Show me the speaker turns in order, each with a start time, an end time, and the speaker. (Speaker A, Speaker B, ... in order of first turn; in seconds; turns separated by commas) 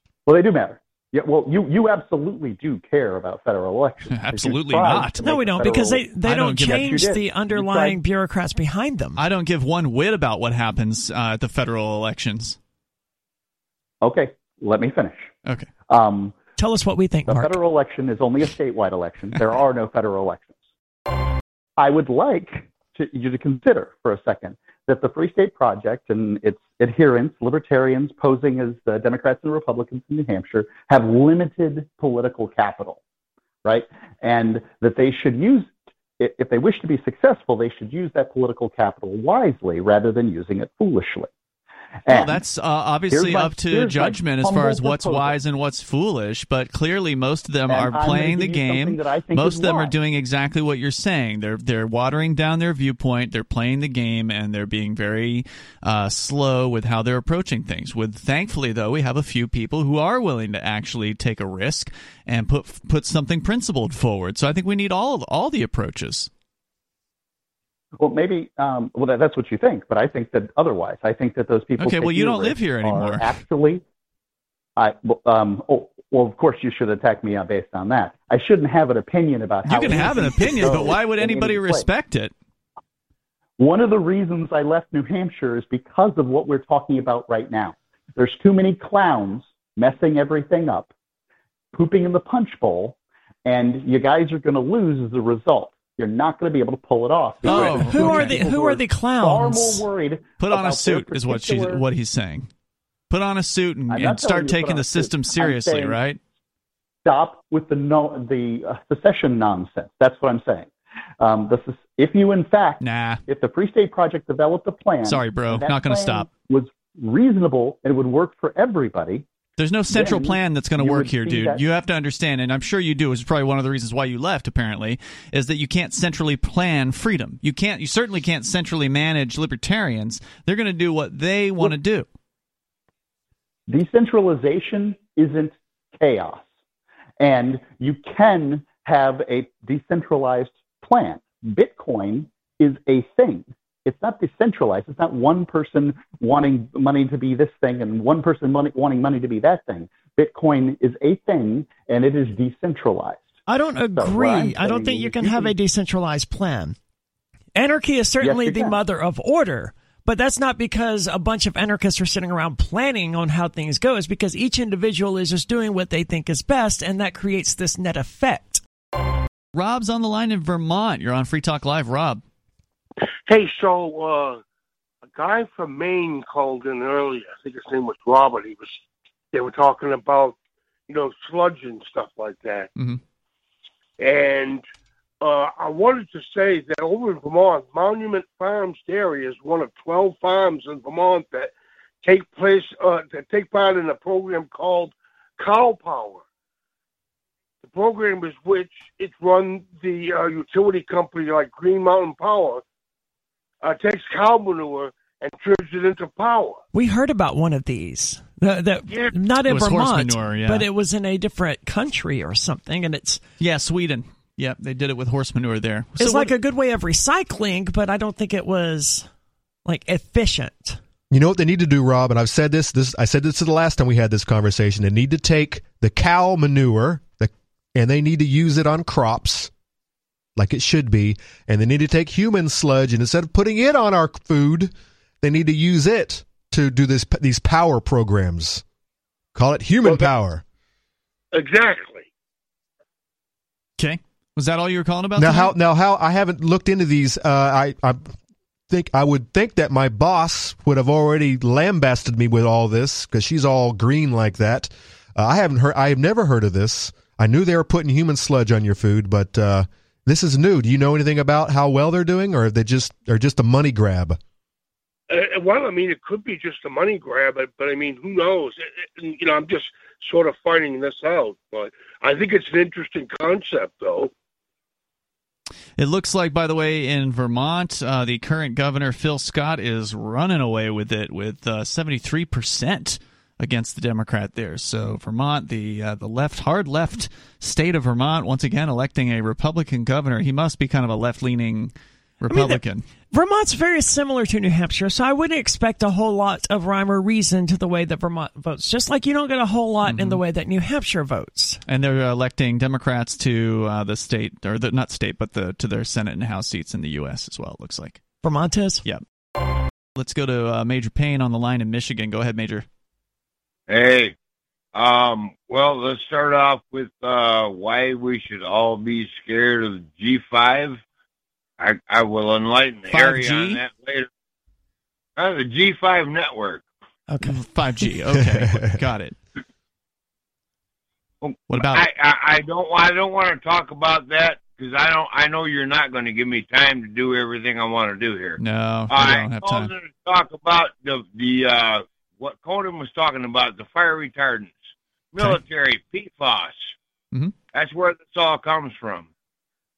Speaker A: 0.2-8.0, Speaker B: 4.1-5.2, Speaker C: 5.2-9.2, Speaker B: 6.2-7.0, Speaker B: 9.2-12.6, Speaker A: 14.0-15.3, Speaker A: 15.9-16.3, Speaker C: 16.6-17.6, Speaker A: 17.3-20.5, Speaker A: 21.8-33.0, Speaker A: 33.6-41.3, Speaker A: 42.1-42.4, Speaker B: 42.1-66.3, Speaker A: 43.1-45.4, Speaker A: 47.7-49.9, Speaker A: 68.0-73.8, Speaker B: 71.8-73.3, Speaker A: 74.8-81.9, Speaker B: 79.6-82.3, Speaker A: 83.6-90.9, Speaker A: 91.7-101.8, Speaker B: 97.4-98.4, Speaker C: 97.4-99.8, Speaker B: 100.4-102.5, Speaker B: 103.1-106.2, Speaker A: 103.9-106.0, Speaker A: 107.0-110.7, Speaker A: 111.2-119.2, Speaker B: 112.8-113.2, Speaker B: 115.0-116.3, Speaker B: 119.6-132.1, Speaker A: 119.9-121.6, Speaker A: 133.7-136.4, Speaker A: 137.2-153.3, Speaker C: 153.5-156.8, Speaker A: 153.9-155.5, Speaker C: 157.5-168.6, Speaker A: 158.2-158.8, Speaker B: 169.5-172.2, Speaker D: 173.3-174.4, Speaker D: 175.1-178.8, Speaker D: 179.3-180.4, Speaker D: 180.9-182.7, Speaker D: 184.0-184.6, Speaker D: 185.2-191.5, Speaker D: 192.0-196.2, Speaker D: 197.6-202.6, Speaker D: 203.6-206.6, Speaker C: 206.7-213.2, Speaker B: 209.4-210.7, Speaker B: 213.4-216.3, Speaker C: 216.0-219.1, Speaker C: 219.7-220.8, Speaker E: 221.1-229.5, Speaker E: 230.3-238.6, Speaker E: 239.3-240.4, Speaker D: 241.3-242.0, Speaker B: 243.8-245.5, Speaker E: 245.2-248.1, Speaker E: 248.7-264.2, Speaker D: 265.1-274.1, Speaker B: 275.8-292.8, Speaker C: 292.3-301.6, Speaker B: 299.8-300.2, Speaker B: 301.7-308.0, Speaker C: 308.2-308.8, Speaker B: 309.9-312.6, Speaker F: 313.7-314.1, Speaker F: 314.7-320.8, Speaker F: 321.6-324.1, Speaker B: 322.9-323.6, Speaker F: 325.2-326.6, Speaker C: 327.1-327.4, Speaker B: 327.2-329.2, Speaker E: 328.2-328.7, Speaker F: 331.2-338.4, Speaker B: 331.5-331.8, Speaker B: 338.4-339.7, Speaker F: 338.9-344.6, Speaker F: 345.1-346.7, Speaker F: 347.5-349.1